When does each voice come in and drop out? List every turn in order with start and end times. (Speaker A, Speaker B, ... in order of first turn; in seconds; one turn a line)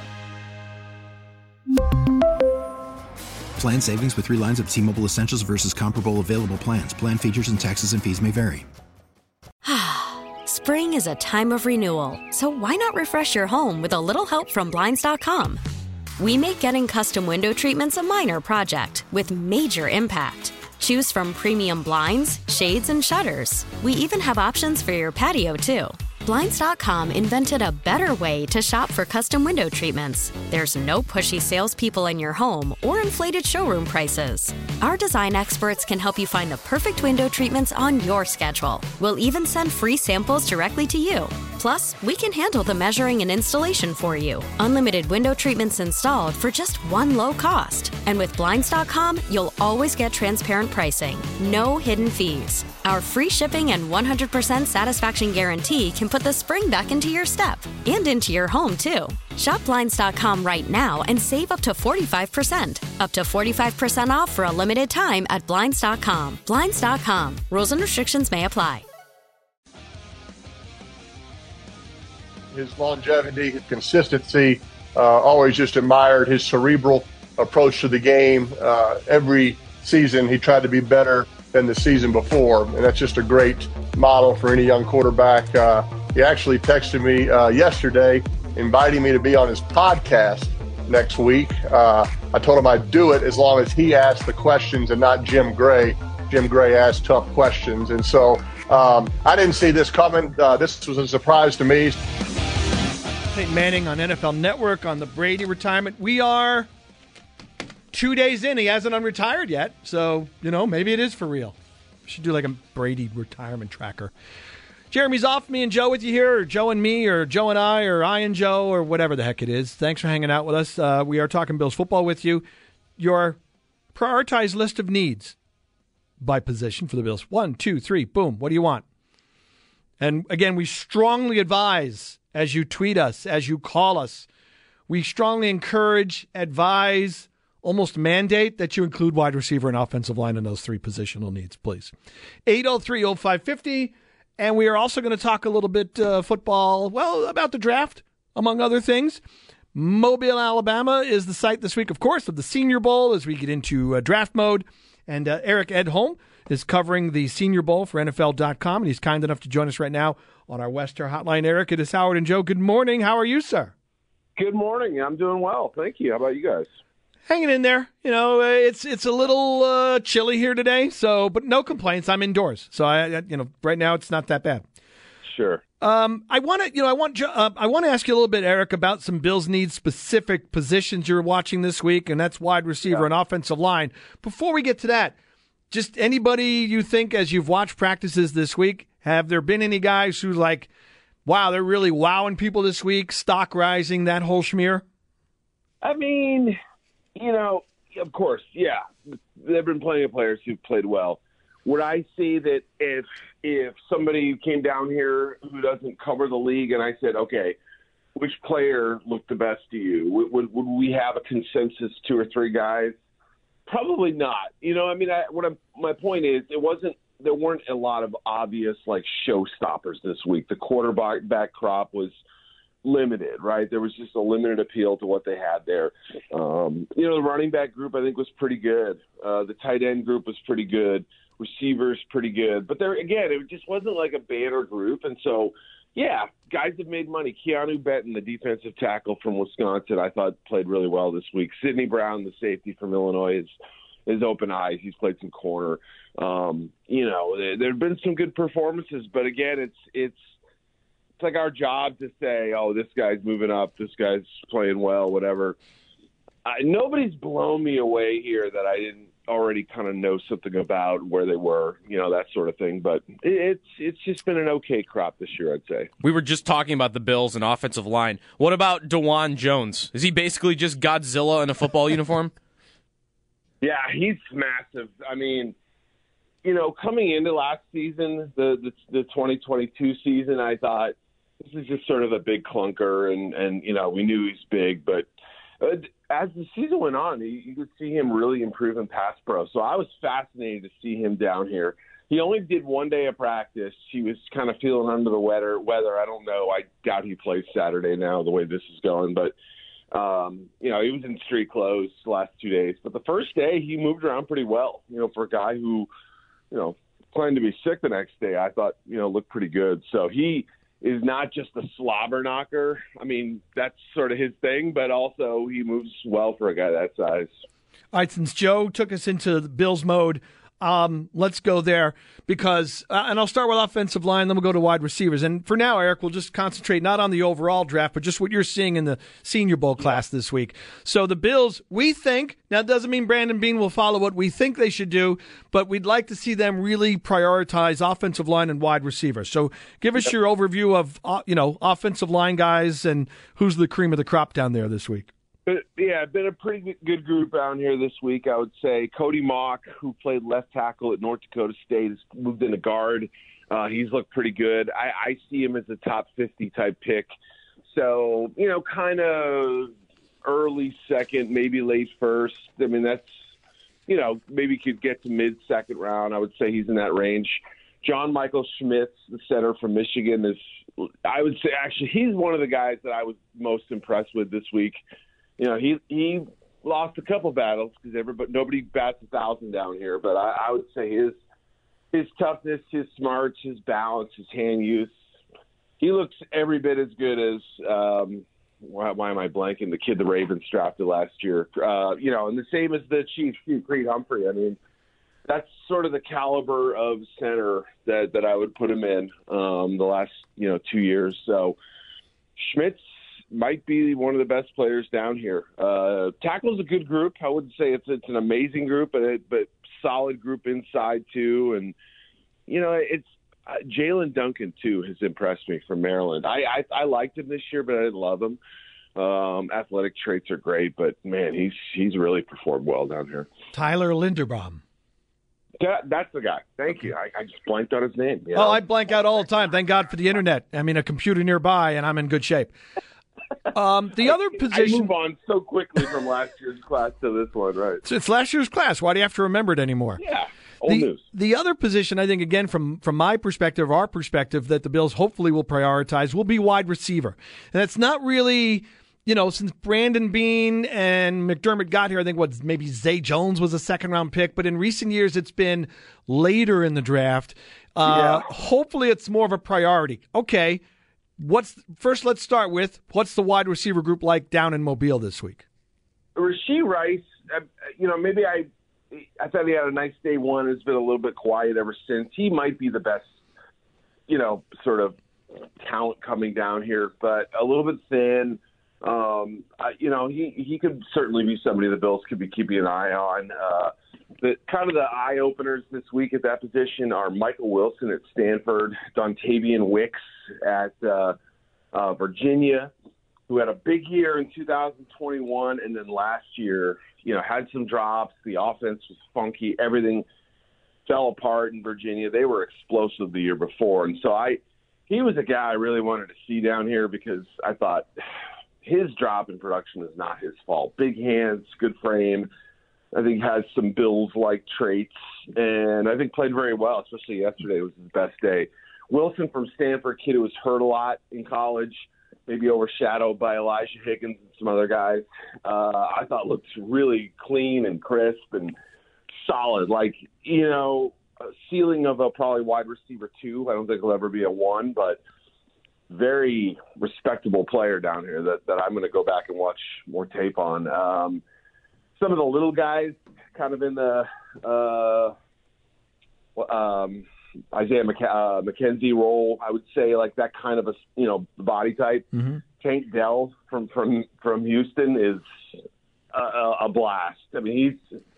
Speaker A: 3.5-8.7
Speaker B: 9.6-15.6
Speaker B: 16.2-68.8
Speaker C: 72.5-102.0
Speaker D: 103.3-106.7
Speaker D: 107.9-111.5
Speaker D: 112.1-114.1
Speaker D: 114.9-122.4
Speaker D: 123.0-123.4
Speaker D: 123.9-125.3
Speaker D: 126.2-128.8
Speaker D: 130.0-134.2
Speaker D: 134.9-141.9
Speaker D: 142.5-149.2
Speaker D: 149.7-163.7
Speaker E: 164.4-166.7
Speaker D: 167.3-174.6
Speaker E: 175.2-175.6
Speaker D: 175.8-185.2
Speaker D: 185.7-190.7
Speaker D: 191.2-194.8
Speaker E: 195.8-196.6
Speaker E: 197.2-198.8
Speaker E: 199.4-207.6
Speaker E: 208.2-212.9
Speaker E: 213.7-222.2
Speaker E: 222.8-243.5
Speaker E: 244.1-250.2
Speaker E: 251.2-255.6
Speaker E: 256.4-265.9
Speaker F: 266.0-272.3
Speaker E: 273.6-275.5
Speaker E: 276.4-285.1
Speaker E: 285.6-299.4
Speaker E: 299.9-305.9
Speaker E: 306.5-317.3
Speaker D: 317.9-345.1
Speaker E: 345.5-357.1
Speaker E: 357.7-359.7
Speaker E: 360.2-363.1
Speaker E: 363.9-370.4
Speaker E: 371.1-374.8
Speaker E: 375.4-381.1
Speaker E: 381.9-384.9
Speaker E: 385.8-394.6
Speaker E: 395.3-401.6
Speaker E: 402.4-411.7
Speaker E: 412.5-418.4
Speaker E: 418.9-423.3
Speaker D: 423.5-424.6
Speaker E: 425.6-428.6
Speaker D: 428.3-432.5
Speaker D: 433.5-434.9
Speaker E: 434.1-437.8
Speaker D: 437.8-440.0
Speaker E: 440.0-441.0
Speaker D: 440.6-460.6
Speaker E: 457.8-458.2
Speaker D: 461.2-465.4
Speaker E: 466.1-473.1
Speaker E: 474.1-474.9
Speaker E: 475.6-491.1
Speaker E: 491.7-492.7
Speaker E: 493.3-500.1
Speaker E: 500.9-507.9
Speaker E: 508.6-512.3
Speaker E: 512.9-528.5
Speaker E: 529.2-535.0
Speaker E: 535.9-541.2
Speaker E: 542.0-545.1
Speaker E: 546.4-552.1
Speaker D: 552.1-552.4
Speaker E: 552.6-555.2
Speaker E: 556.1-557.8